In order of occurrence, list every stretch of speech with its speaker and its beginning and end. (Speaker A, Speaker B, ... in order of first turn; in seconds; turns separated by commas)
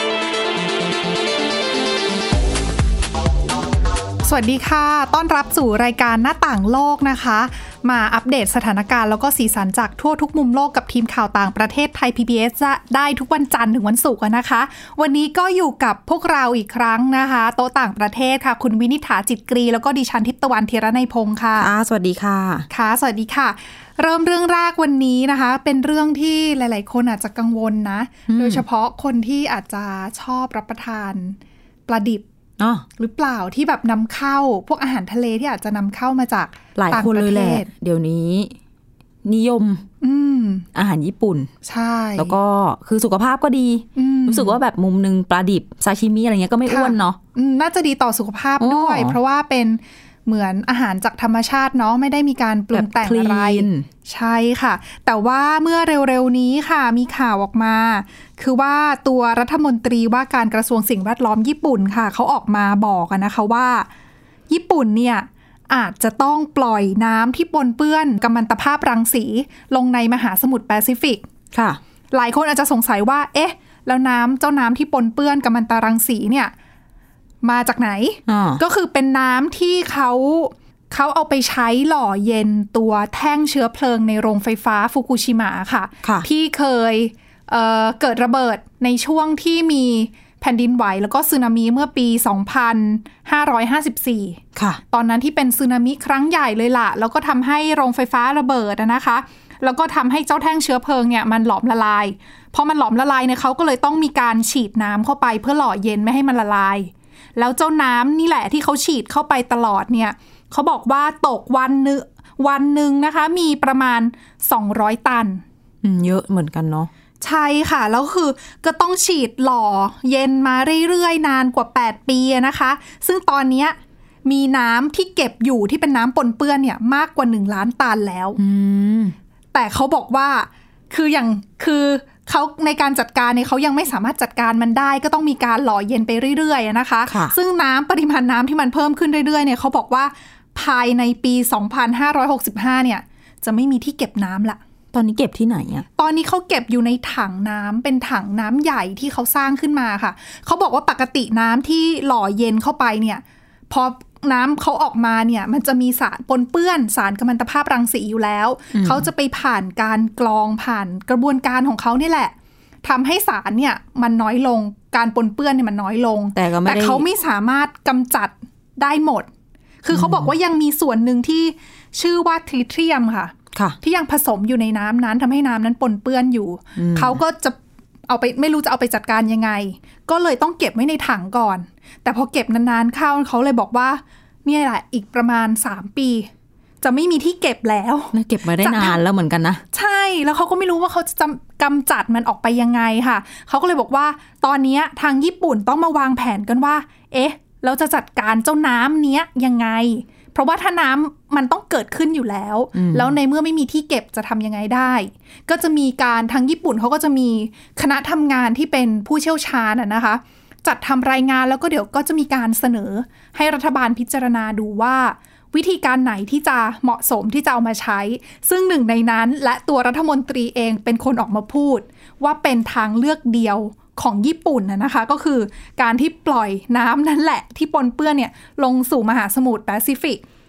Speaker A: 4.2-21.7, Speaker B: 21.6-22.7, Speaker A: 22.7-32.2, Speaker B: 28.3-28.6, Speaker B: 32.6-32.9, Speaker A: 33.0-37.7, Speaker B: 36.7-38.6, Speaker B: 39.2-39.8, Speaker A: 40.0-40.6, Speaker B: 40.7-41.5, Speaker A: 41.6-42.3, Speaker B: 42.2-47.2, Speaker A: 44.0-44.6, Speaker A: 46.6-63.9, Speaker B: 48.6-49.2, Speaker B: 52.7-53.9, Speaker A: 64.5-71.2, Speaker B: 71.5-71.8, Speaker A: 72.1-76.5, Speaker A: 77.4-115.4, Speaker B: 78.3-78.6, Speaker B: 94.5-94.8, Speaker B: 115.8-116.9, Speaker A: 117.2-128.4, Speaker B: 128.4-129.2, Speaker A: 129.5-144.6, Speaker B: 137.1-137.3, Speaker B: 144.9-145.8, Speaker A: 146.0-169.3, Speaker B: 158.7-159.1, Speaker B: 166.3-167.1, Speaker A: 169.8-177.6, Speaker B: 169.9-170.3, Speaker B: 176.8-177.2, Speaker A: 178.1-186.3, Speaker A: 186.8-189.0, Speaker B: 188.1-189.6, Speaker A: 189.7-230.2, Speaker B: 202.7-203.2